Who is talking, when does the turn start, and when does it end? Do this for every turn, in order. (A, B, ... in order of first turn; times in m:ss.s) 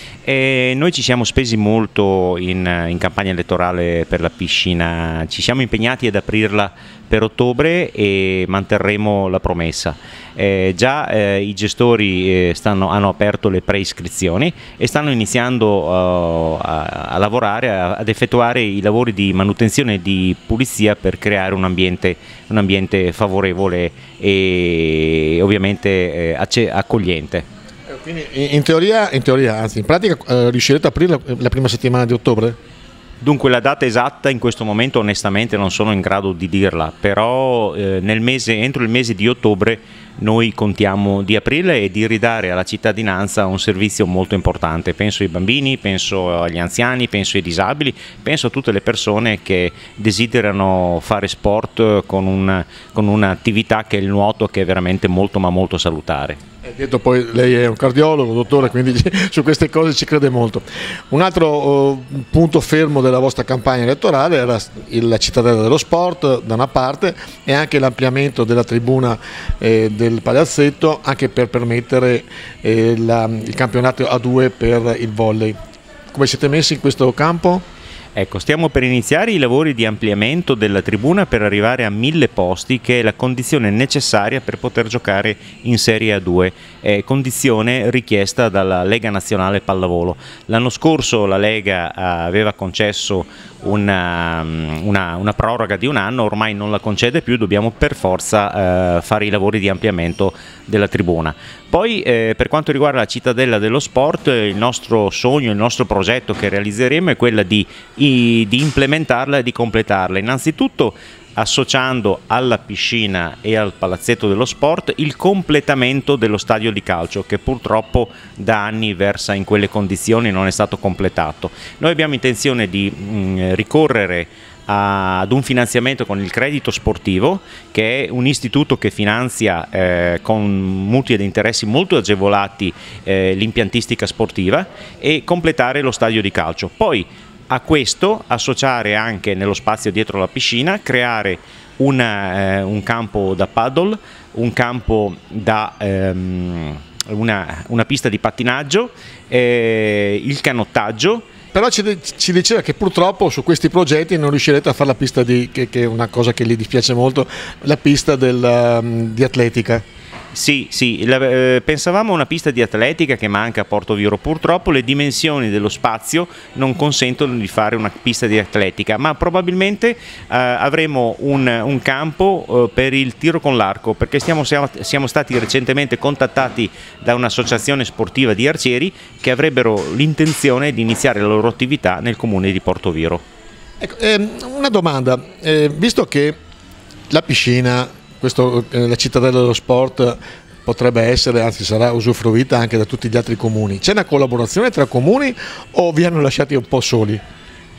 0:00.2-0:27.4 A
0:27.9-0:32.6 B
0:33.2-0:56.4 A
0:56.6-1:15.6 B
1:16.1-1:17.6 B
1:18.1-2:31.2 A
2:31.5-2:39.8 B
2:40.3-3:03.2 A
3:03.8-3:06.4 B
3:07.1-3:17.2 B